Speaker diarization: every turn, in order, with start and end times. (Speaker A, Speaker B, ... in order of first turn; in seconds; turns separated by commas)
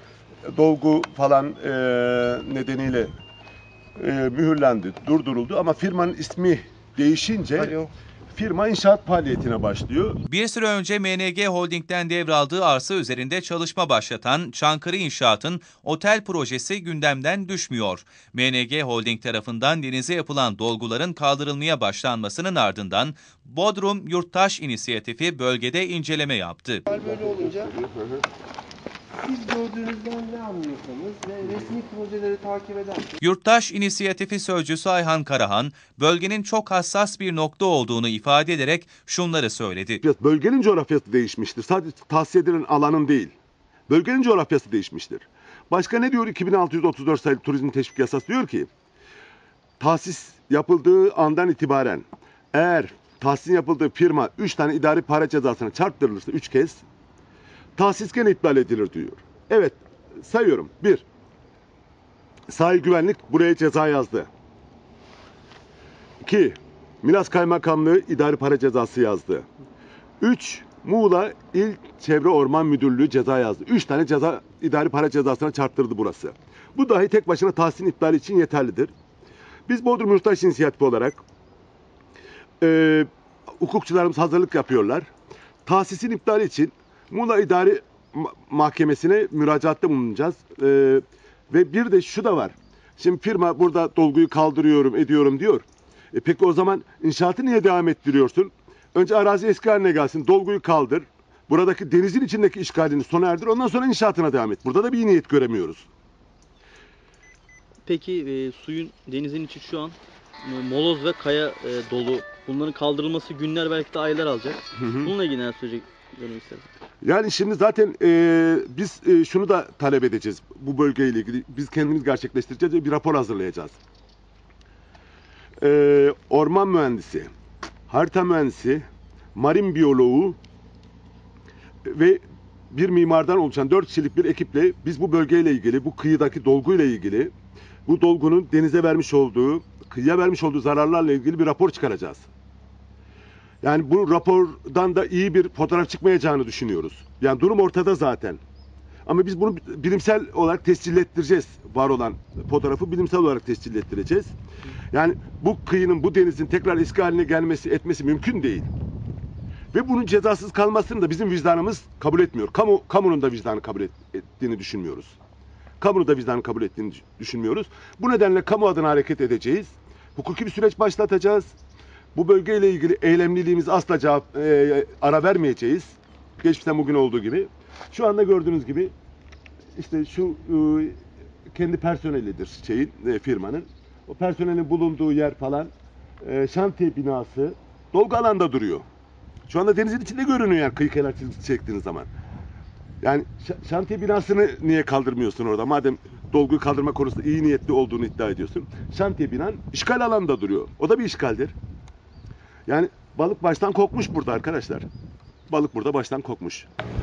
Speaker A: 0.5-3.1, Speaker A: 4.0-10.2, Speaker B: 10.3-26.9, Speaker C: 26.9-27.7, Speaker A: 26.9-28.2, Speaker C: 29.2-33.1, Speaker B: 33.2-40.0, Speaker A: 40.0-43.3, Speaker A: 43.9-48.7, Speaker A: 49.8-56.8, Speaker A: 57.8-61.0, Speaker A: 62.5-64.3, Speaker A: 66.2-69.5, Speaker A: 70.2-78.9, Speaker A: 79.7-81.2, Speaker A: 82.6-85.1, Speaker A: 85.7-105.9, Speaker D: 107.8-116.7, Speaker A: 114.8-115.1, Speaker A: 117.0-123.8, Speaker A: 125.6-127.3, Speaker A: 127.9-128.8, Speaker A: 129.3-130.4, Speaker A: 131.8-137.3, Speaker A: 137.8-142.3, Speaker A: 143.6-148.4, Speaker A: 149.0-154.3, Speaker A: 154.9-158.7, Speaker A: 159.7-165.2, Speaker A: 165.8-171.5, Speaker A: 172.1-178.9, Speaker A: 179.8-181.0, Speaker A: 181.5-188.8, Speaker A: 189.5-192.1, Speaker A: 193.0-201.5, Speaker A: 202.7-204.9, Speaker A: 205.5-206.7